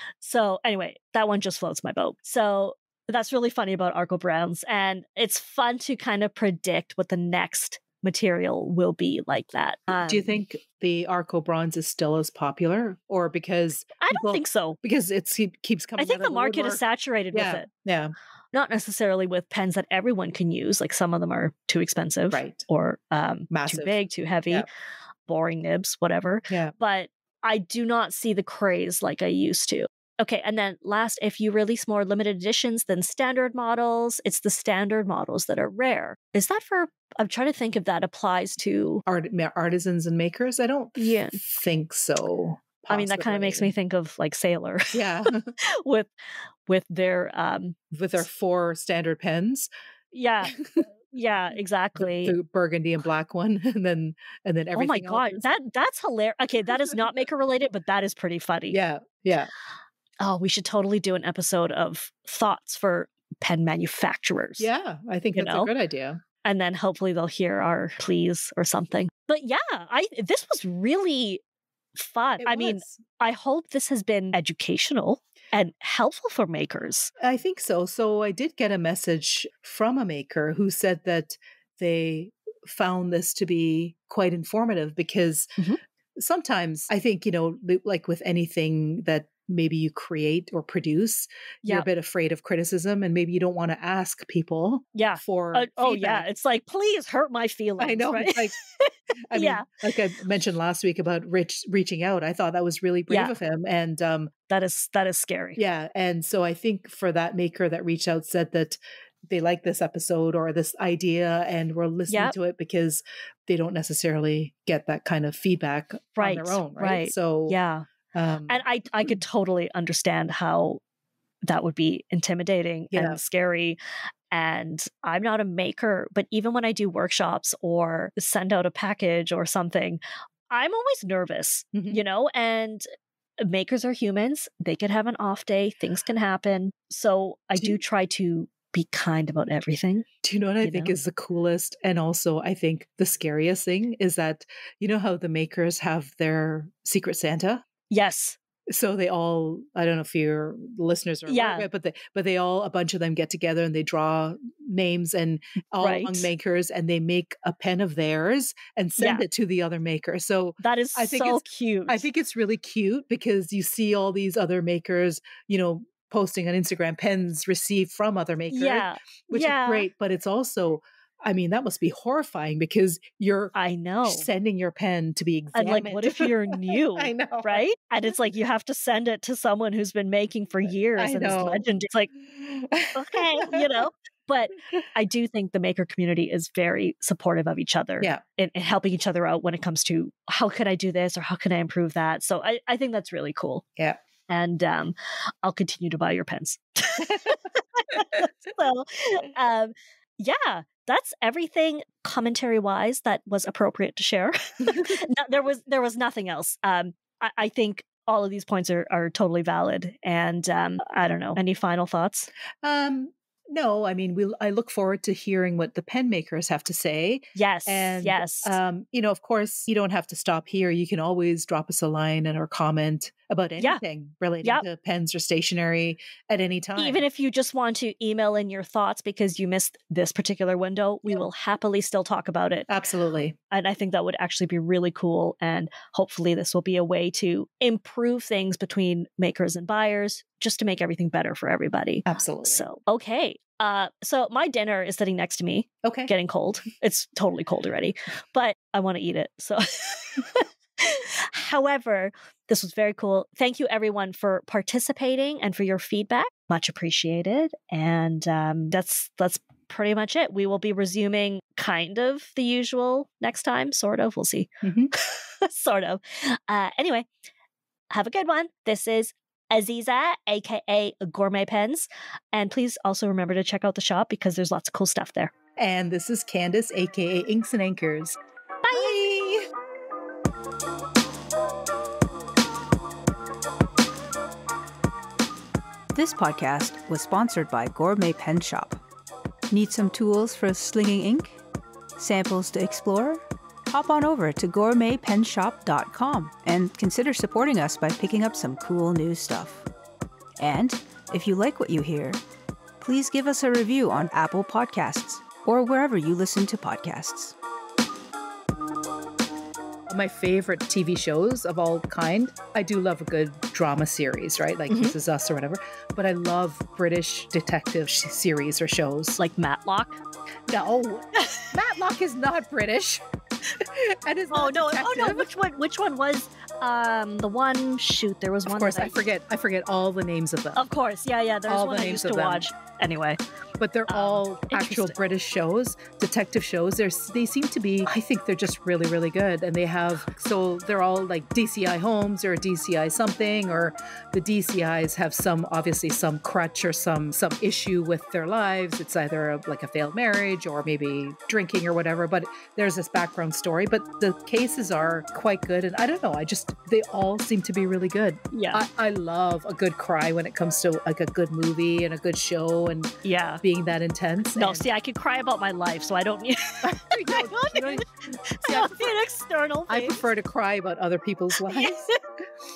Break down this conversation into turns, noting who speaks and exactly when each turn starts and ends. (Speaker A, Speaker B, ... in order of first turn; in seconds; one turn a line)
Speaker A: 0.2-10.3
Speaker B: 9.9-16.8
Speaker A: 14.0-14.8
Speaker A: 16.0-17.7
Speaker B: 17.3-18.1
Speaker A: 18.5-24.7
Speaker B: 22.3-22.6
Speaker B: 23.5-24.7
Speaker A: 25.2-39.0
Speaker B: 26.5-26.7
Speaker B: 39.1-43.7
Speaker A: 41.0-41.4
Speaker A: 42.9-46.1
Speaker B: 44.9-45.5
Speaker A: 46.7-47.8
Speaker B: 47.9-49.7
Speaker A: 50.1-50.5
Speaker B: 50.5-50.8
Speaker A: 51.1-52.4
Speaker B: 52.0-55.5
Speaker A: 54.7-58.8
Speaker B: 58.7-59.5
Speaker A: 60.2-64.7
Speaker B: 64.6-66.2
Speaker A: 65.3-65.7
Speaker A: 66.4-71.4
Speaker A: 72.0-77.1
Speaker B: 72.4-73.0
Speaker B: 77.2-85.5
Speaker B: 86.2-96.3
Speaker A: 94.9-99.7
Speaker B: 97.8-98.6
Speaker B: 99.3-104.3
Speaker A: 104.5-105.6
Speaker B: 105.5-117.6
Speaker A: 112.1-112.3
Speaker A: 116.2-117.9
Speaker B: 118.1-119.1
Speaker A: 118.5-120.8
Speaker A: 121.5-123.8
Speaker B: 122.9-123.2
Speaker A: 124.3-132.8
Speaker B: 131.7-132.0
Speaker A: 133.4-140.1
Speaker B: 140.2-147.6
Speaker A: 140.6-140.9
Speaker A: 147.9-148.4
Speaker B: 148.7-173.5
Speaker A: 151.3-151.7
Speaker A: 155.8-156.3
Speaker A: 159.0-159.2
Speaker A: 160.6-162.1
Speaker A: 168.5-169.9
Speaker A: 173.5-174.3
Speaker B: 174.1-177.6
Speaker A: 175.5-182.1
Speaker B: 181.0-181.6
Speaker B: 182.2-183.8
Speaker A: 182.9-193.6
Speaker A: 194.3-212.3
Speaker B: 197.0-197.3
Speaker B: 204.7-205.0
Speaker B: 212.6-227.0
Speaker A: 217.3-218.6
Speaker A: 226.8-232.7
Speaker B: 232.7-233.3
Speaker A: 233.5-267.1
Speaker B: 242.1-242.6
Speaker B: 245.8-246.1
Speaker B: 264.6-264.9
Speaker A: 267.9-275.3
Speaker B: 275.6-278.2
Speaker A: 278.6-279.0
Speaker B: 278.7-279.4
Speaker C: 285.9-288.8
Speaker C: 289.5-291.4
Speaker C: 292.0-299.7
Speaker C: 300.4-302.2
Speaker C: 302.8-307.3
Speaker B: 309.9-319.2
Speaker A: 314.7-314.9
Speaker A: 319.2-320.0
Speaker B: 320.5-323.0
Speaker A: 321.2-321.5
Speaker B: 323.6-325.3
Speaker A: 324.3-329.0
Speaker B: 328.4-330.6
Speaker A: 330.5-333.2
Speaker B: 331.5-332.5
Speaker B: 333.6-362.9
Speaker A: 333.9-334.9
Speaker A: 358.3-358.6
Speaker A: 363.0-363.4
Speaker B: 363.4-364.7
Speaker A: 364.4-370.1
Speaker B: 366.6-368.9
Speaker B: 369.7-371.8
Speaker A: 371.5-371.9